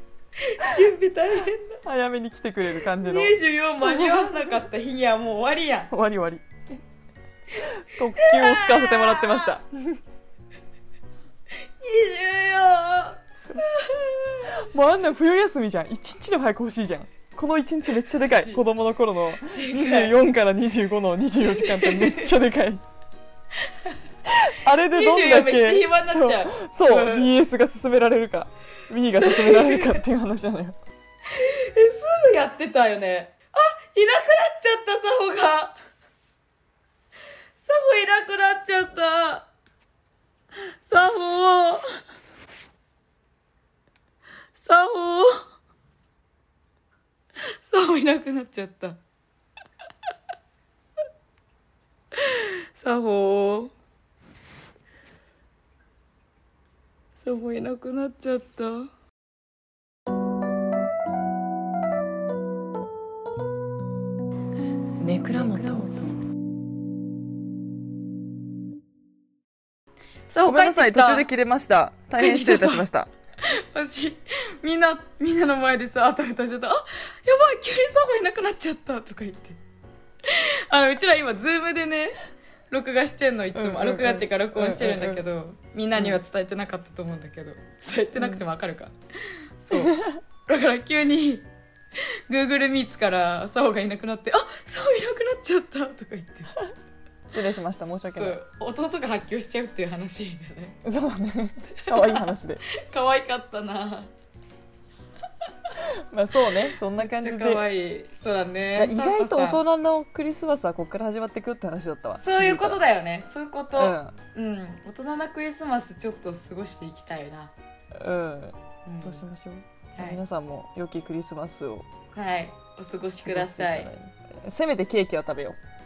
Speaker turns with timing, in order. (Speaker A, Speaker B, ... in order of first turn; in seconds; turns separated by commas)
Speaker A: 0.4-1.8, Speaker B: 1.8-4.6, Speaker A: 3.0-5.9, Speaker B: 5.9-6.5, Speaker B: 7.5-10.0, Speaker A: 8.2-9.6, Speaker A: 11.8-14.6, Speaker B: 14.5-22.8, Speaker A: 18.3-18.6, Speaker A: 19.5-20.2, Speaker A: 21.4-22.3, Speaker A: 23.6-27.3, Speaker B: 24.2-30.8, Speaker A: 29.1-30.0, Speaker A: 31.3-35.8, Speaker A: 37.6-39.5, Speaker A: 40.6-42.0, Speaker A: 44.5-45.5, Speaker A: 47.4-49.0, Speaker A: 52.1-53.7, Speaker A: 57.2-58.9, Speaker B: 65.0-66.1, Speaker A: 65.3-65.9, Speaker A: 70.3-71.3, Speaker B: 70.5-73.1, Speaker A: 72.2-72.9, Speaker A: 73.4-79.6, Speaker A: 80.2-91.5, Speaker B: 83.5-85.2, Speaker B: 86.0-86.2, Speaker B: 88.2-88.4, Speaker B: 89.7-90.2, Speaker A: 92.3-96.5, Speaker B: 97.3-98.4, Speaker A: 98.1-100.8, Speaker B: 100.8-102.6, Speaker A: 101.8-104.1, Speaker B: 105.8-107.7, Speaker A: 107.0-109.6, Speaker B: 108.8-112.8, Speaker A: 112.2-117.5, Speaker B: 113.7-114.2, Speaker B: 117.9-121.9, Speaker A: 118.8-119.2, Speaker A: 120.0-120.2, Speaker A: 122.1-123.9, Speaker B: 123.2-125.6